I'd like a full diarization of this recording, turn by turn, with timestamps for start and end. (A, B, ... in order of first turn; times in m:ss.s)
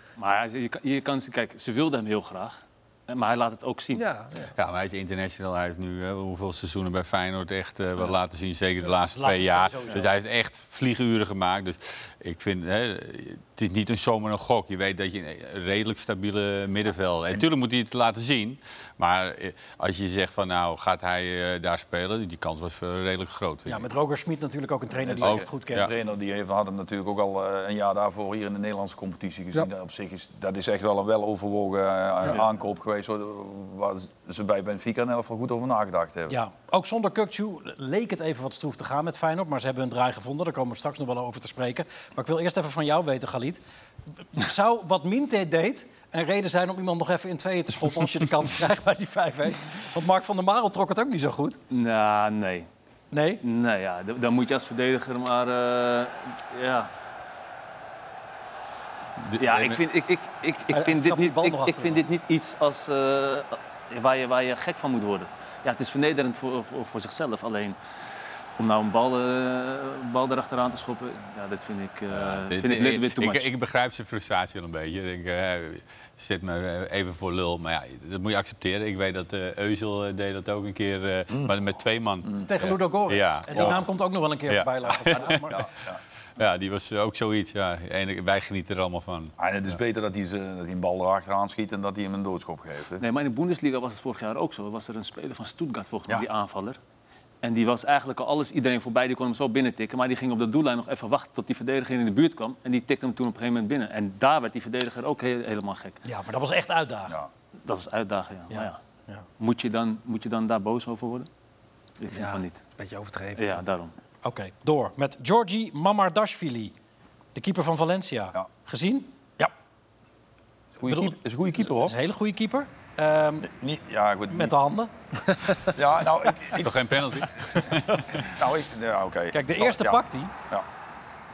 0:00.2-0:04.0 A
0:03.9-0:04.5 B
0:04.6-0:23.8 C
0:09.1-0:10.1 D
0:23.7-0:25.9 D
0:25.0-0:36.4 E
0:25.2-0:25.9 C
0:36.3-0:43.6 D
0:44.2-0:51.6 D
0:51.7-0:52.7 A
0:53.1-0:53.4 D
0:53.4-0:56.9 A
0:59.2-0:59.8 C
0:59.4-1:13.5 A
1:00.7-1:02.0 D
1:12.1-1:23.9 C
1:22.5-1:25.6 D
1:24.5-1:25.6 C
1:25.5-1:26.0 E
1:26.4-1:29.4 C
1:29.4-1:33.0 E
1:33.0-1:36.8 A
1:37.4-1:46.0 A
1:46.0-1:47.2 D
1:47.6-1:48.8 A
1:48.5-1:49.3 D
1:49.4-1:51.3 A
1:52.0-1:52.6 A
1:52.1-1:53.6 B
1:53.4-1:53.9 A
1:54.2-1:56.7 D
1:57.4-1:59.1 D
2:00.8-2:02.0 E
2:00.9-2:03.5 D
2:03.4-2:04.6 E
2:04.3-2:04.9 D
2:05.7-2:07.2 E
2:06.6-2:08.3 C
2:08.3-2:10.7 E
2:09.3-2:10.3 D